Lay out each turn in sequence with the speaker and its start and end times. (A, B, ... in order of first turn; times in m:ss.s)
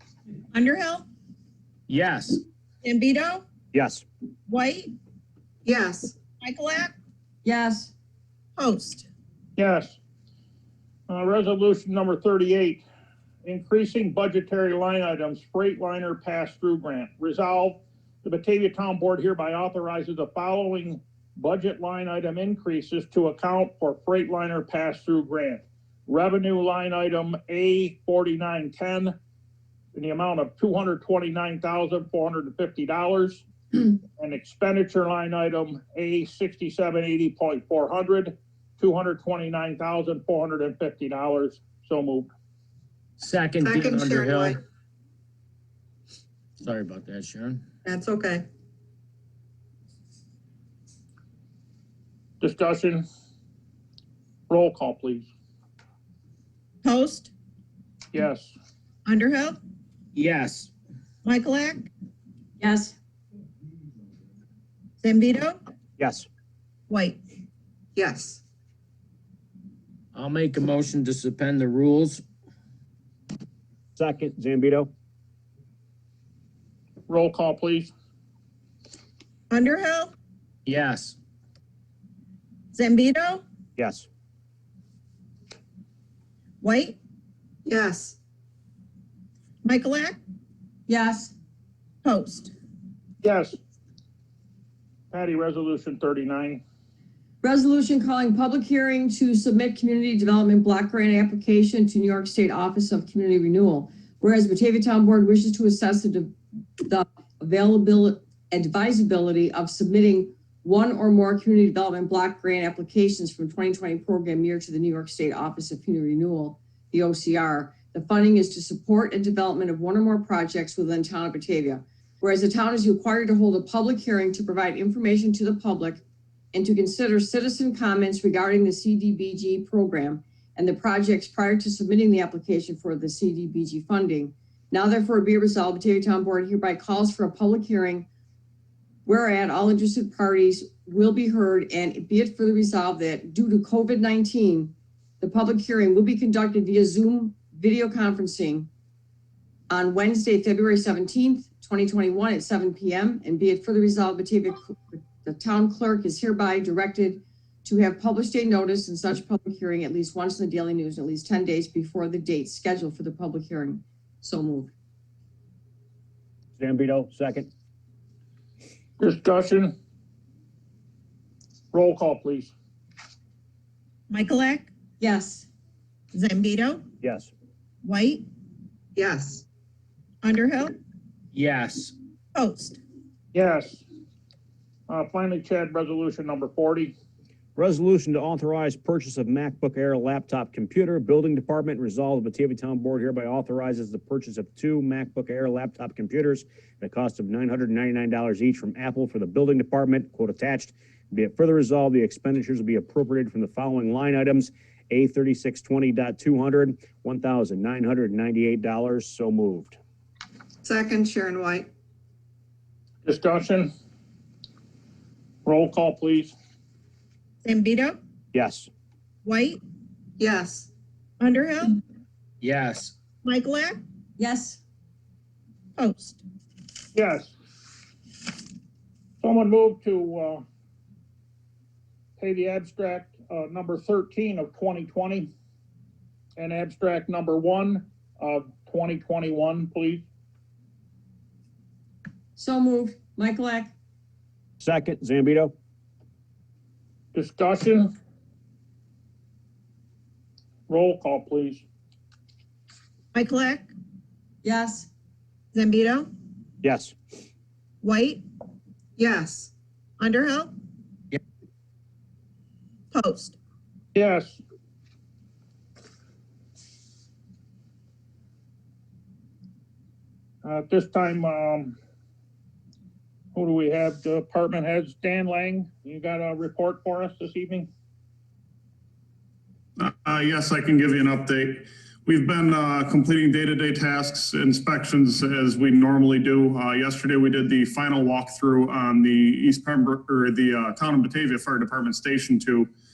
0:00.5-0:01.0 A
0:01.9-0:02.4 B
0:02.8-0:03.4 A
0:03.7-0:04.0 C
0:04.5-0:04.9 A
0:05.6-0:06.2 D
0:06.4-0:06.9 A
0:07.4-0:07.9 E
0:08.6-0:09.1 A
0:09.6-0:10.0 F
0:11.1-0:12.8 F
0:13.4-0:29.1 F
0:29.9-0:33.4 F
0:34.2-0:42.3 F
0:43.2-0:44.6 B
0:43.6-0:44.6 D
0:46.6-0:47.6 B
0:47.8-0:48.4 D
0:52.4-0:53.0 F
0:54.5-0:55.3 F
0:56.8-0:57.3 A
0:58.1-0:58.5 F
0:59.0-0:59.6 A
1:00.1-1:00.7 B
1:01.2-1:01.9 A
1:02.6-1:03.0 E
1:05.0-1:05.6 A
1:06.0-1:06.3 C
1:06.9-1:07.2 A
1:08.0-1:08.4 D
1:10.1-1:12.2 B
1:14.0-1:14.9 C
1:17.1-1:17.9 F
1:19.5-1:20.1 A
1:20.6-1:21.2 B
1:22.7-1:23.4 A
1:23.8-1:24.1 C
1:26.6-1:27.0 A
1:27.6-1:28.2 D
1:29.6-1:30.2 A
1:30.9-1:31.3 E
1:32.0-1:32.5 A
1:33.2-1:33.6 F
1:35.1-1:36.6 F
1:37.4-2:18.1 E
2:19.0-2:28.7 E
2:29.7-2:44.7 E
2:46.6-2:47.5 C
2:49.0-2:49.7 F
2:51.7-2:52.5 F
2:54.1-2:54.7 A
2:55.0-2:55.5 E
2:56.1-2:56.9 A
2:57.0-2:57.3 C
2:57.8-2:58.2 A
2:59.0-2:59.4 D
3:00.2-3:00.8 A
3:01.3-3:01.9 B
3:02.3-3:02.8 A
3:03.3-3:03.8 F
3:04.9-3:06.9 F
3:07.6-3:29.8 C
3:30.6-3:31.7 D
3:33.0-3:33.7 F
3:35.4-3:36.3 F
3:37.4-3:38.0 A
3:38.3-3:38.7 C
3:39.2-3:39.6 A
3:40.2-3:40.7 D
3:41.2-3:41.8 A
3:42.4-3:42.9 B
3:43.2-3:43.8 A
3:44.2-3:44.6 E
3:45.8-3:46.2 A
3:46.9-3:47.3 F
3:49.2-3:50.4 F
3:52.2-3:55.3 F
3:56.4-4:00.0 F
4:02.4-4:03.7 E
4:04.6-4:05.5 C
4:07.1-4:07.9 F
4:10.7-4:11.6 F
4:13.1-4:13.7 A
4:14.4-4:14.9 E
4:15.5-4:16.1 A
4:16.6-4:16.9 C
4:17.8-4:18.2 A
4:19.0-4:19.5 D
4:20.0-4:20.5 A
4:22.9-4:23.4 A
4:23.9-4:24.4 F
4:30.4-4:31.8 F
4:33.3-4:37.7 F
4:39.8-4:52.7 G